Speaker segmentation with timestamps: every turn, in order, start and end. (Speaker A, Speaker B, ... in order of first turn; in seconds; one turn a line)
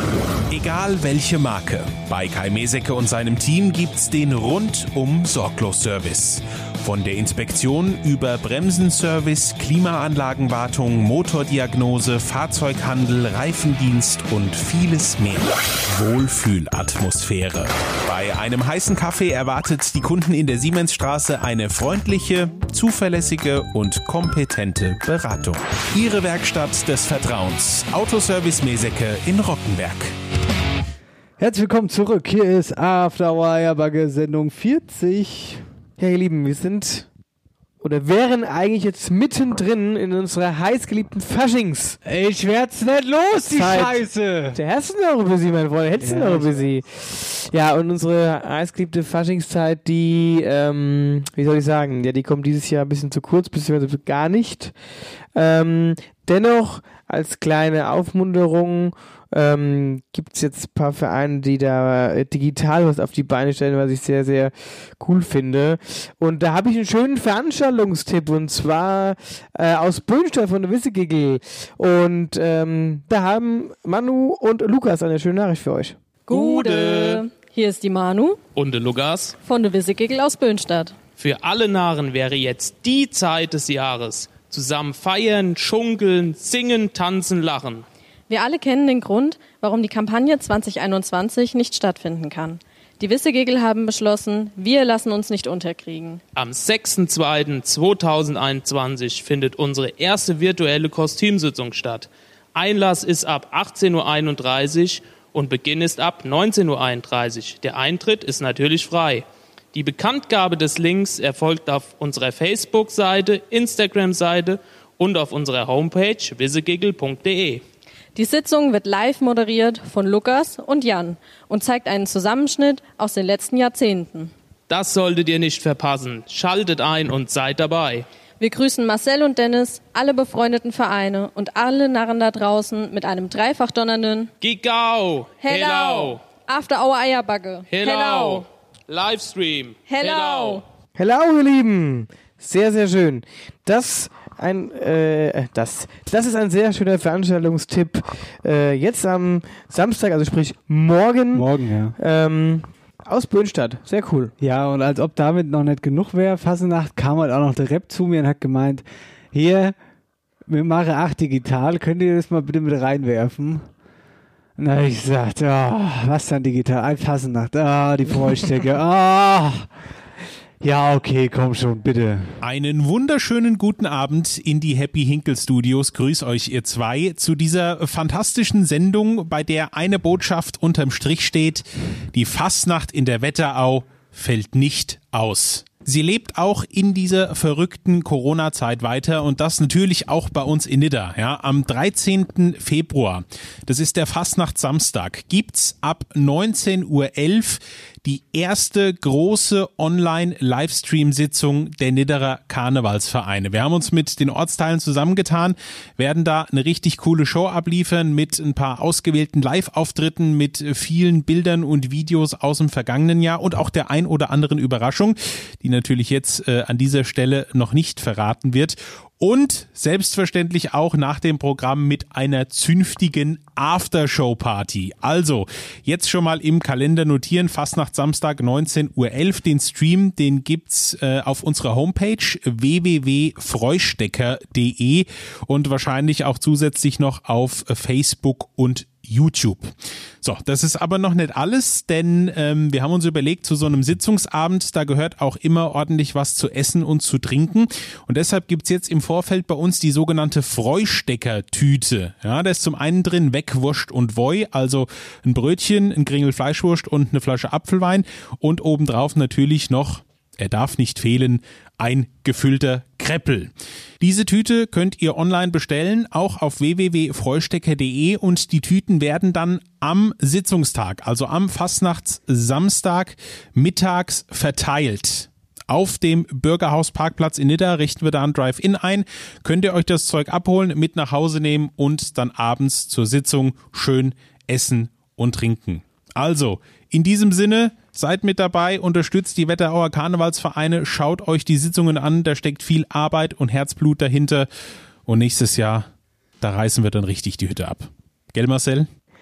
Speaker A: 0.5-30.1
Speaker B: 31.4-35.6
Speaker C: 36.0-37.1
Speaker C: 37.8-42.0
Speaker B: 42.0-44.6
Speaker C: 43.5-54.8
Speaker B: 46.0-46.7
Speaker C: 55.3-76.0
Speaker D: 76.3-78.4
Speaker E: 76.3-77.2
Speaker E: 78.5-79.3
Speaker D: 79.4-81.0
Speaker E: 81.2-87.8
Speaker D: 88.3-96.2
Speaker E: 96.3-117.6
Speaker D: 118.1-124.3
Speaker E: 124.7-128.1
Speaker D: 128.4-134.3
Speaker E: 134.4-136.2
Speaker D: 135.4-138.5
Speaker E: 137.7-140.6
Speaker D: 139.8-140.6
Speaker C: 141.0-154.3
Speaker B: 151.3-151.9
Speaker B: 154.4-159.8
Speaker B: 160.4-163.7
Speaker B: 164.6-169.7
Speaker B: 170.6-172.3
Speaker A: 172.4-294.5
Speaker A: 295.1-295.9
Speaker A: 296.4-298.9